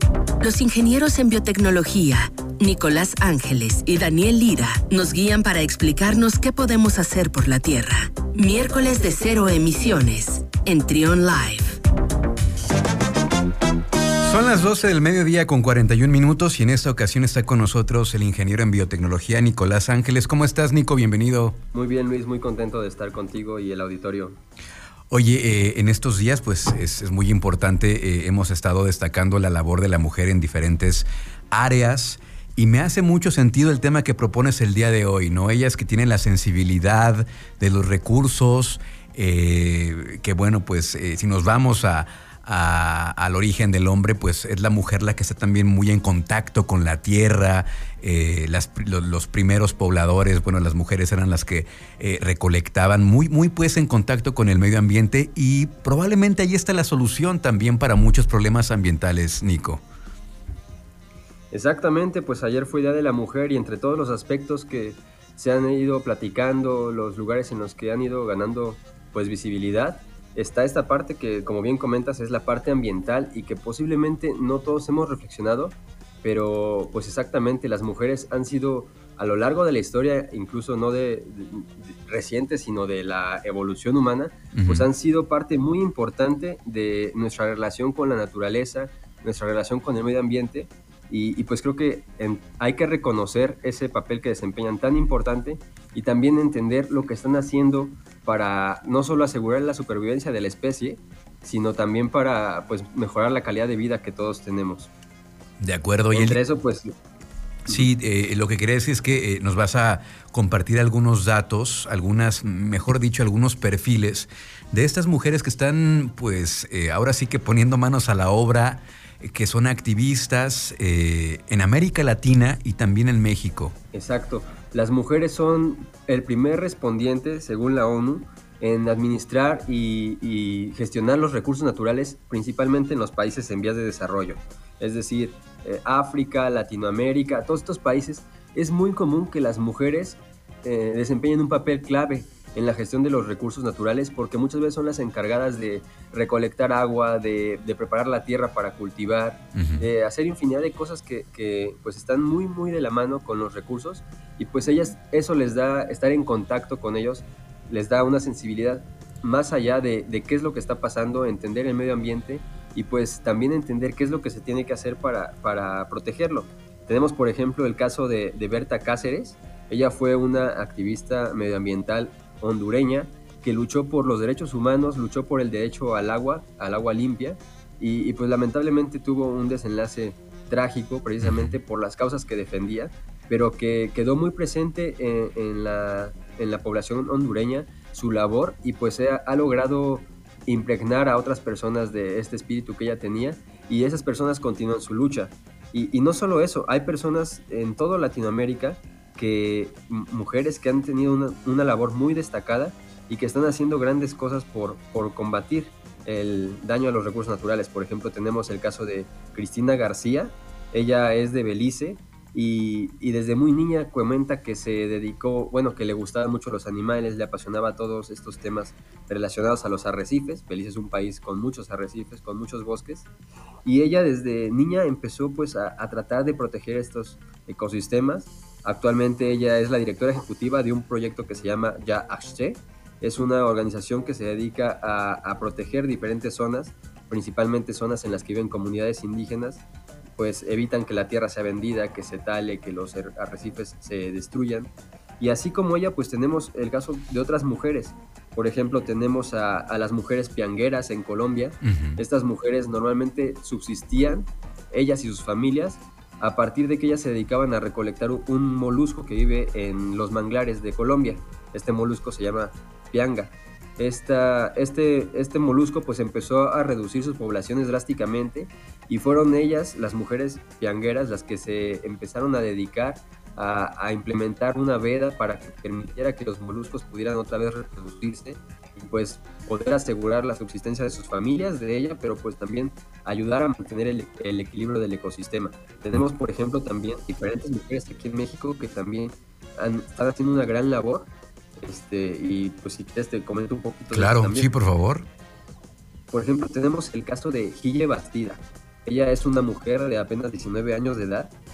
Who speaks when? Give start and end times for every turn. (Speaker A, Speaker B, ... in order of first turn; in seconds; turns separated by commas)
Speaker A: 0.4-11.8, Speaker B: 14.2-21.6, Speaker C: 21.7-24.4, Speaker B: 25.1-59.8, Speaker C: 61.5-104.9, Speaker B: 84.5-84.9, Speaker B: 105.6-106.4, Speaker C: 106.1-106.9, Speaker B: 107.7-123.7, Speaker C: 123.9-223.1, Speaker B: 149.6-149.8, Speaker B: 181.2-181.5, Speaker C: 223.6-239.6, Speaker C: 240.2-294.5, Speaker B: 251.6-252.0, Speaker B: 293.9-295.1, Speaker C: 296.1-301.3